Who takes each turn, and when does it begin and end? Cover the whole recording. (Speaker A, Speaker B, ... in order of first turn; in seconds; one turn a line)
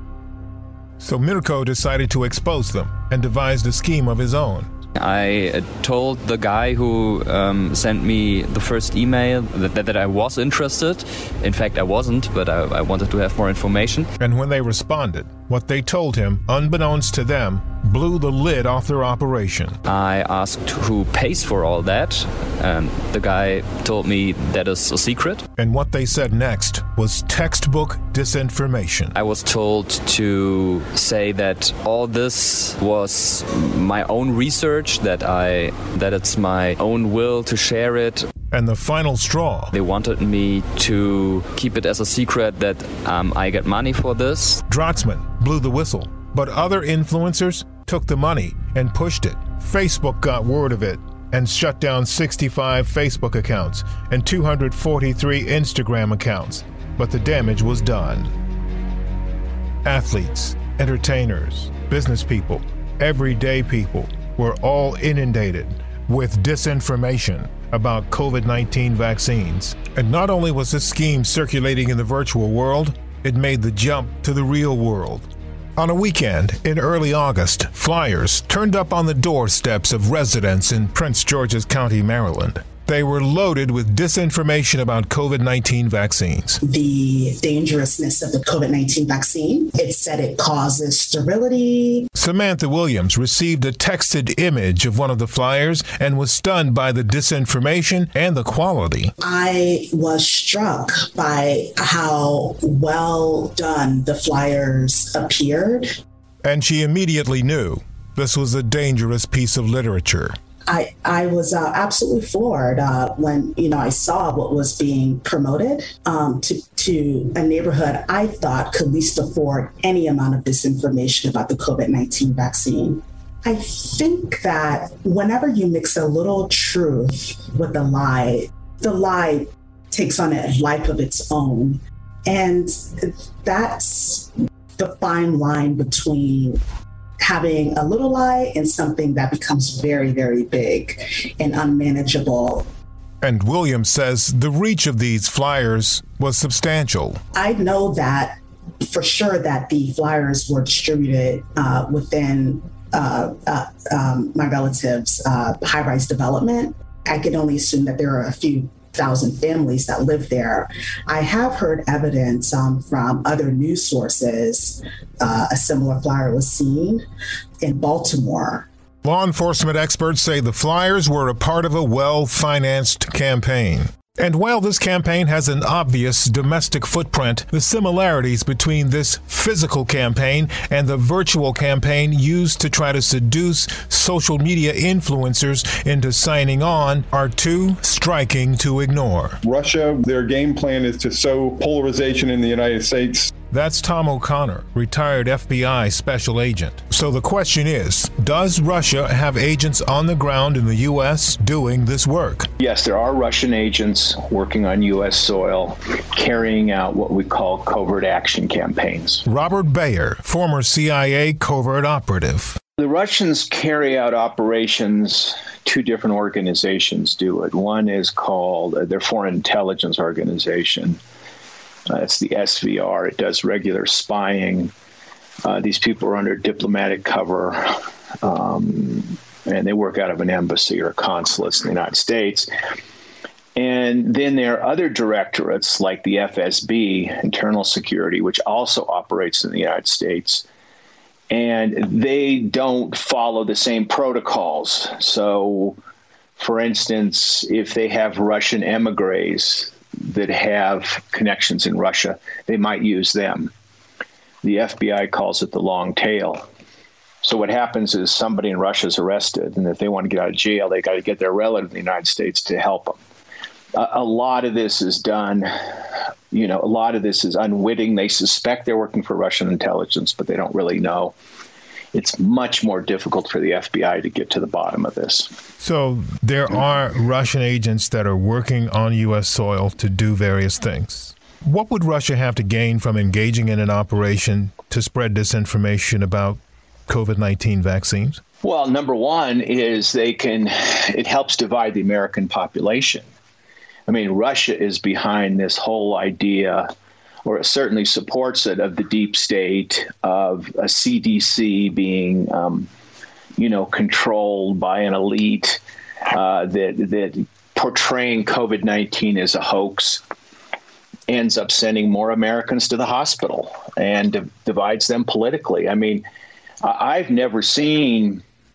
Speaker A: 1.0-4.7
Speaker B: 5.0-14.1
Speaker A: 14.2-19.8
Speaker B: 19.9-25.4
Speaker A: 25.6-29.1
Speaker B: 29.1-38.3
Speaker A: 38.5-39.7
Speaker B: 39.7-44.6
Speaker A: 44.7-58.3
Speaker A: 59.8-86.6
Speaker C: 86.6-92.1
Speaker A: 92.2-99.1
Speaker C: 99.2-105.9
Speaker A: 106.4-110.4
Speaker C: 110.7-136.6
Speaker C: 137.2-142.7
Speaker A: 143.2-147.2
Speaker C: 147.3-167.0
Speaker C: 167.6-168.7
Speaker A: 169.0-189.4
Speaker D: 189.4-193.3
Speaker A: 193.5-202.5
Speaker E: 202.6-209.2
Speaker A: 209.3-212.6
Speaker E: 212.8-221.0
Speaker E: 221.9-224.7
Speaker E: 225.4-227.7
Speaker E: 228.2-232.5
Speaker E: 233.6-240.4
Speaker E: 241.3-245.8
Speaker E: 246.4-253.5
Speaker E: 254.4-256.5
Speaker E: 257.2-263.0
Speaker E: 263.8-265.5
Speaker E: 266.3-271.1
Speaker E: 271.9-275.3
Speaker A: 275.6-288.2
Speaker E: 288.4-293.1
Speaker E: 293.9-296.7
Speaker E: 297.2-302.7
Speaker E: 303.4-305.6
Speaker E: 306.1-310.0
Speaker E: 311.1-316.1
Speaker E: 316.6-318.2